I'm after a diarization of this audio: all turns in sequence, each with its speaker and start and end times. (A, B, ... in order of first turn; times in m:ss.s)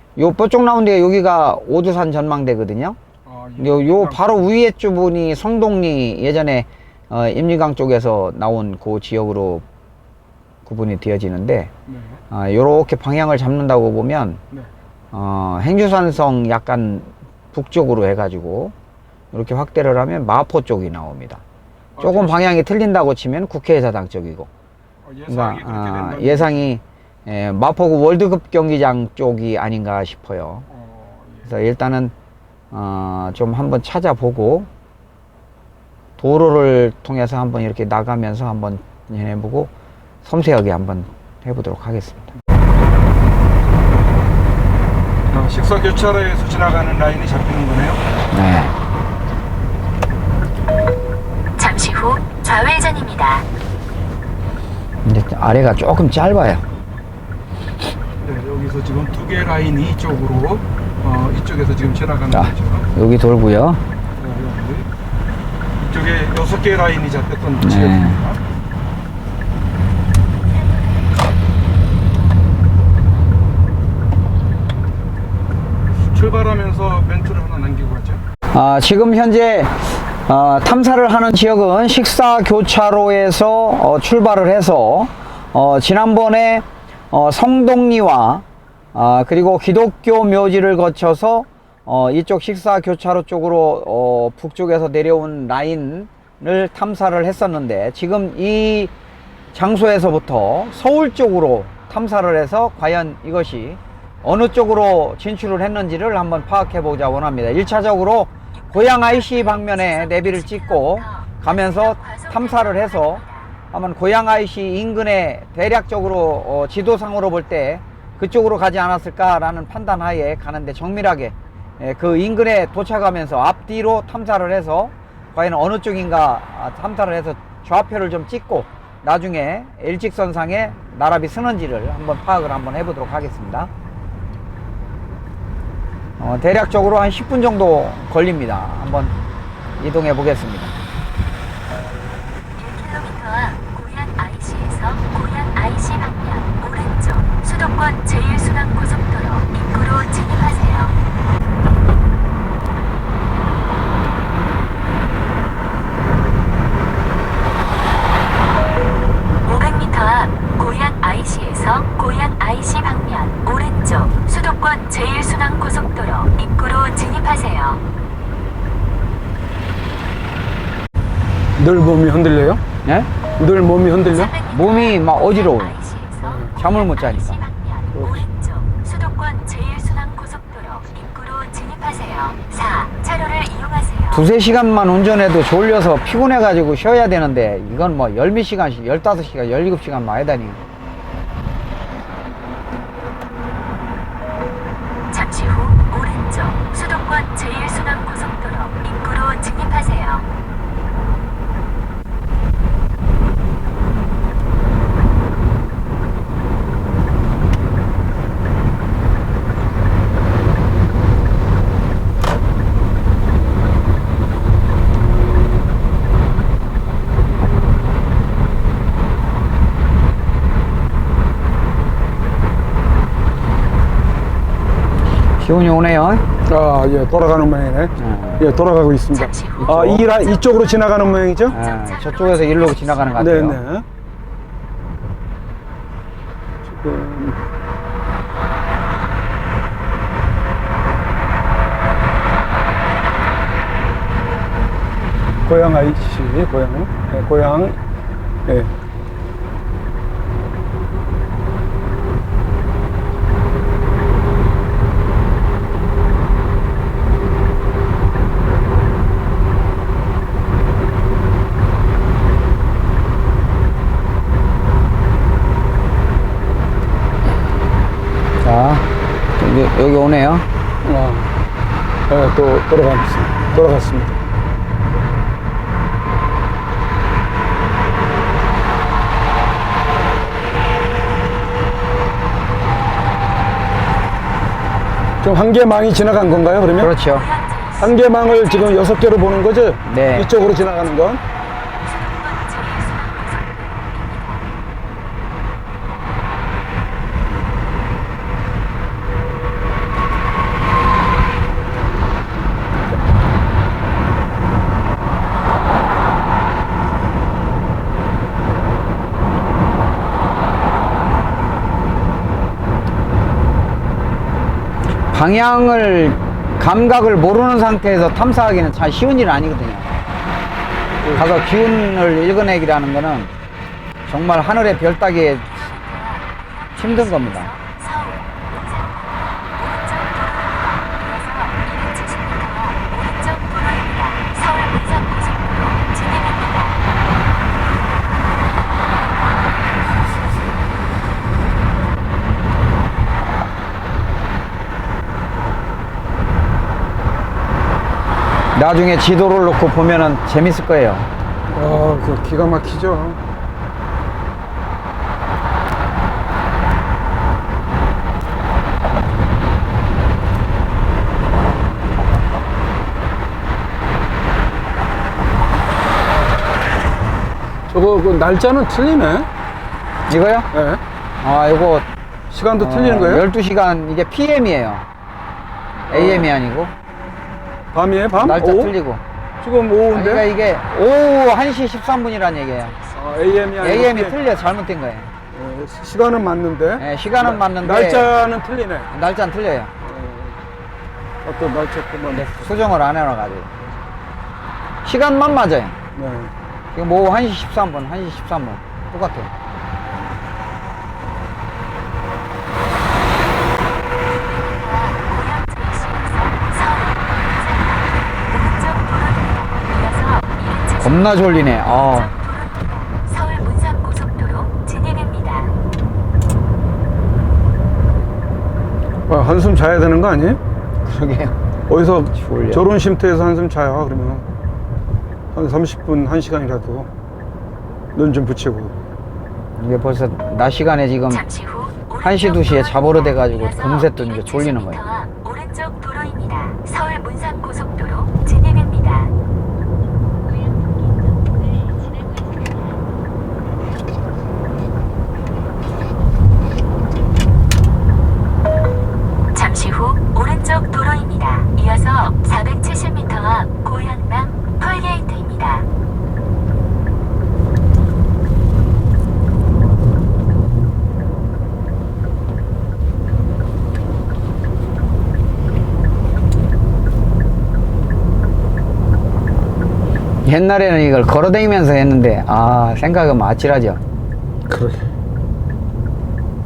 0:00.2-0:03.0 A
0:03.3-0:04.4 B
0:03.6-0:09.6 A
0:10.6-0:11.7 A
0:11.9-0:12.2 B
0:12.3-0:14.4 A
0:15.1-0:18.7 A
0:19.3-0:21.4 A
0:22.0-0:22.4 B
0:22.0-0:24.5 A
0:25.0-0:26.7 B
0:25.3-0:30.7 A
0:30.7-0:31.5 B
0:31.5-0:32.1 A
0:32.7-0:34.7 A
0:36.2-0:39.7 A
0:40.2-0:42.3 A
0:45.3-0:48.0 B
0:48.3-0:48.7 A
0:51.6-0:53.4 C
0:55.0-0:56.6 A
0:58.2-1:02.9 B
1:02.3-1:03.8 A
1:04.2-1:04.9 B
1:05.8-1:08.4 B
1:07.6-1:08.2 A
1:16.0-1:18.2 B
1:18.5-1:38.9 A
1:39.5-2:13.7 A
1:48.8-1:53.5 C
2:16.2-2:19.2 A
2:19.8-2:20.8 A
2:22.6-2:31.0 C
2:39.5-2:47.8 C
2:51.6-2:52.6 B
2:53.4-2:54.4 B
2:54.1-3:04.2 C
2:54.5-2:55.8 A
2:56.2-2:56.5 B
2:56.4-2:57.4 A
2:57.9-2:58.2 B
3:04.1-3:10.6 A
3:15.1-3:20.2 C
3:45.4-3:46.2 A
3:46.5-3:51.6 B
3:48.0-3:48.5 A
3:49.2-3:49.8 C
3:49.6-3:50.1 A
3:51.5-3:53.6 A
3:51.5-3:53.2 C
3:53.2-3:53.9 B
3:56.6-3:57.4 B
4:05.5-4:07.8 B
4:08.5-4:08.7 B
4:28.4-4:28.8 A
4:29.4-4:30.4 A
4:30.8-4:31.4 B
4:32.1-4:34.2 B
4:45.2-4:46.9 B
4:46.8-4:47.3 A
4:47.2-4:49.0 C
4:47.8-4:51.2 B
4:49.9-4:50.3 A
4:51.8-4:54.5 C
5:15.1-5:20.0 A
5:21.2-5:23.3 A
5:24.1-5:25.6 A
5:25.4-5:36.8 C
5:26.8-5:27.6 A
5:48.6-5:51.1 A
5:51.5-5:53.2 B
6:07.7-6:09.3 B
6:10.1-6:10.5 A
6:10.5-6:10.8 B
6:11.2-6:11.9 A
6:12.3-6:13.2 B
6:12.6-6:14.8 A
6:15.9-6:16.7 A
6:15.9-6:16.3 B
6:17.7-6:18.7 B
6:18.2-6:19.0 A
6:19.4-6:20.3 B
6:19.9-6:22.8 A
6:22.9-6:24.2 B
6:23.6-6:25.1 A
6:25.3-6:28.9 B
6:26.8-6:28.1 A
6:28.9-6:29.7 A
6:29.8-6:30.4 B
6:31.2-6:32.6 B
6:32.1-6:33.5 A
6:34.8-6:35.8 A
6:36.0-6:36.3 B
6:36.7-6:39.3 A
6:44.1-6:55.5 C
6:50.8-6:52.2 A
6:59.1-7:00.4 B
7:00.8-7:01.4 A
7:01.7-7:04.3 B
7:02.1-7:02.7 A
7:05.3-7:06.9 B
7:08.0-7:08.8 B
7:09.6-7:11.3 A
7:11.1-7:19.1 C
7:12.0-7:14.8 A
7:29.3-7:35.7 C
7:50.2-7:53.8 A
7:54.5-7:54.8 B